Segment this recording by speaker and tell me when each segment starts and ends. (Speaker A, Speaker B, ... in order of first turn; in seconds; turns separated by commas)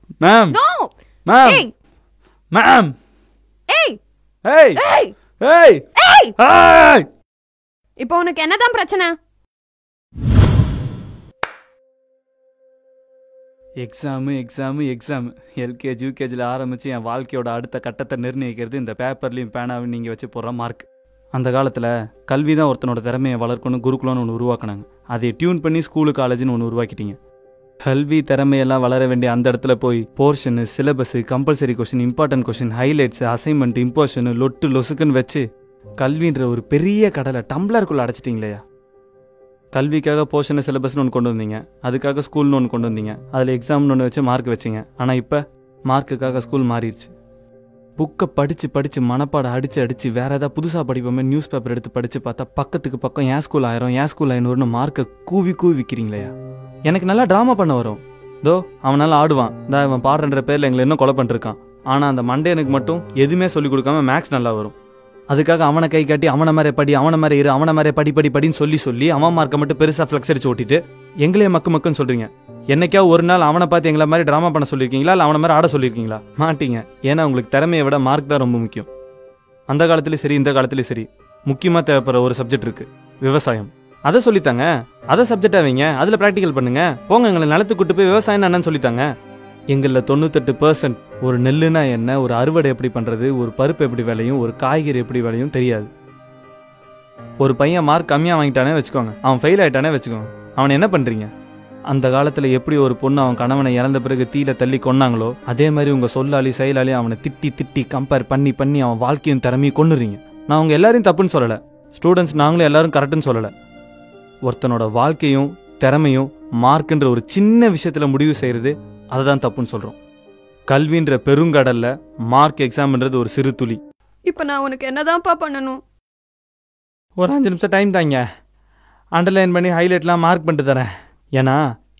Speaker A: 0.2-0.6, Speaker B: 0.5-1.7, Speaker A: 1.2-1.6, Speaker A: 2.5-2.9, Speaker B: 3.7-4.0, Speaker A: 4.4-4.8, Speaker B: 4.8-5.1, Speaker A: 5.4-7.1, Speaker B: 6.0-6.3, Speaker B: 8.0-9.1, Speaker A: 13.8-27.2, Speaker A: 27.8-35.4, Speaker A: 36.0-38.6, Speaker A: 39.7-47.1, Speaker A: 48.0-56.3, Speaker A: 56.9-64.7, Speaker A: 65.3-78.9, Speaker A: 79.7-89.0, Speaker A: 89.7-95.9, Speaker A: 97.4-101.3, Speaker A: 101.9-113.5, Speaker A: 114.5-120.0, Speaker A: 120.7-123.8, Speaker B: 124.3-125.8, Speaker A: 127.2-128.2, Speaker A: 129.2-131.6